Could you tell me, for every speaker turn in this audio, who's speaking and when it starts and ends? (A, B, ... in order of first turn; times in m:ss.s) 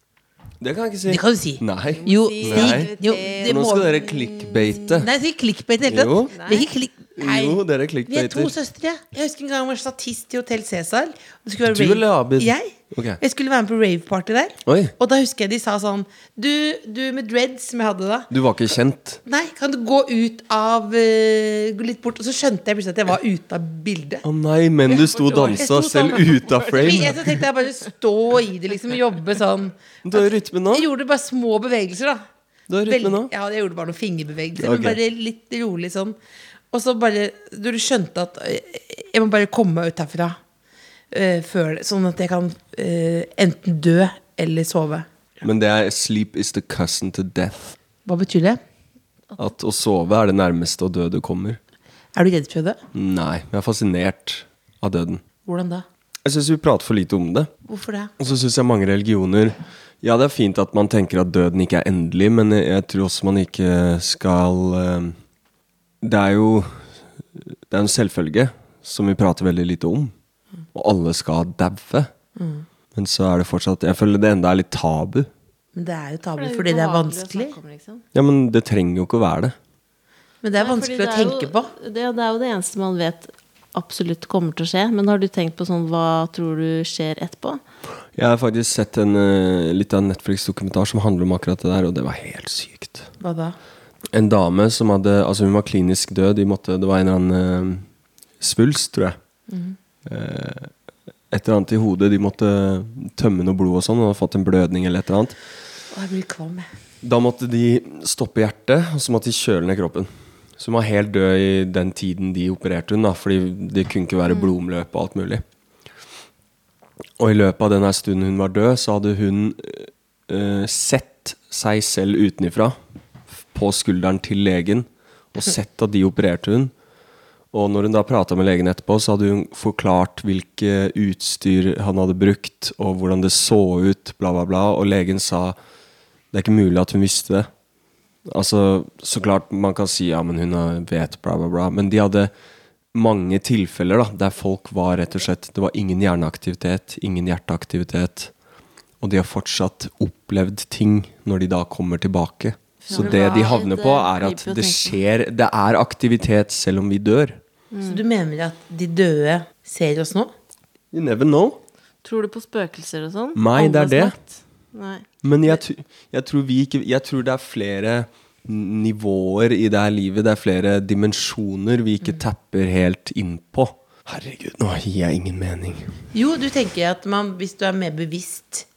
0:00.6-0:02.9 A
0:01.1-0:04.0 B
0:02.0-0:04.8 C
0:03.5-0:05.1 A
0:05.0-0:18.3 B
0:05.9-0:06.4 A
0:06.3-0:06.7 C
0:07.2-0:08.6 A
0:11.6-0:13.2 A
0:14.6-0:15.0 A
0:18.3-0:19.2 A
0:19.3-0:24.2 B
0:24.2-0:27.3 A
0:24.9-0:27.2 C
0:26.7-0:32.2 B
0:30.0-0:30.9 A
0:32.7-0:33.3 A
0:32.9-0:36.2 B
0:34.6-0:35.0 A
0:36.7-0:40.4 B
0:41.1-0:45.1 B
0:45.4-0:47.8 A
0:48.0-0:48.6 B
0:49.4-0:51.6 A
0:52.1-0:52.8 B
0:52.9-0:55.2 A
0:55.4-0:55.8 B
0:56.2-0:57.5 A
0:57.6-0:58.1 B
0:58.2-1:05.2 A
1:06.0-1:10.1 A
1:10.7-1:12.1 A
1:12.4-1:12.6 B
1:12.9-1:15.3 A
1:15.8-1:17.6 B
1:16.4-1:18.0 C
1:18.1-1:19.6 A
1:20.4-1:21.7 B
1:20.6-1:27.6 C
1:28.1-1:33.1 A
1:33.2-1:33.6 B
1:34.1-1:37.9 A
1:38.4-1:39.2 A
1:39.5-1:39.8 B
1:40.0-1:40.7 A
1:41.3-1:45.4 A
1:45.9-1:46.7 B
1:47.0-1:55.4 A
1:57.2-2:02.8 A
2:03.3-2:06.7 A
2:07.5-2:15.6 A
2:16.3-2:17.5 A
2:18.3-2:22.3 A
2:22.9-2:28.3 A
2:29.0-2:37.4 A
2:32.8-2:35.0 C
2:32.9-2:33.5 B
2:37.7-2:38.0 C
2:37.8-2:40.3 B
2:40.9-2:41.6 A
2:42.0-2:45.6 C
2:43.4-2:44.2 A
2:45.2-2:56.0 A
2:56.1-2:58.7 B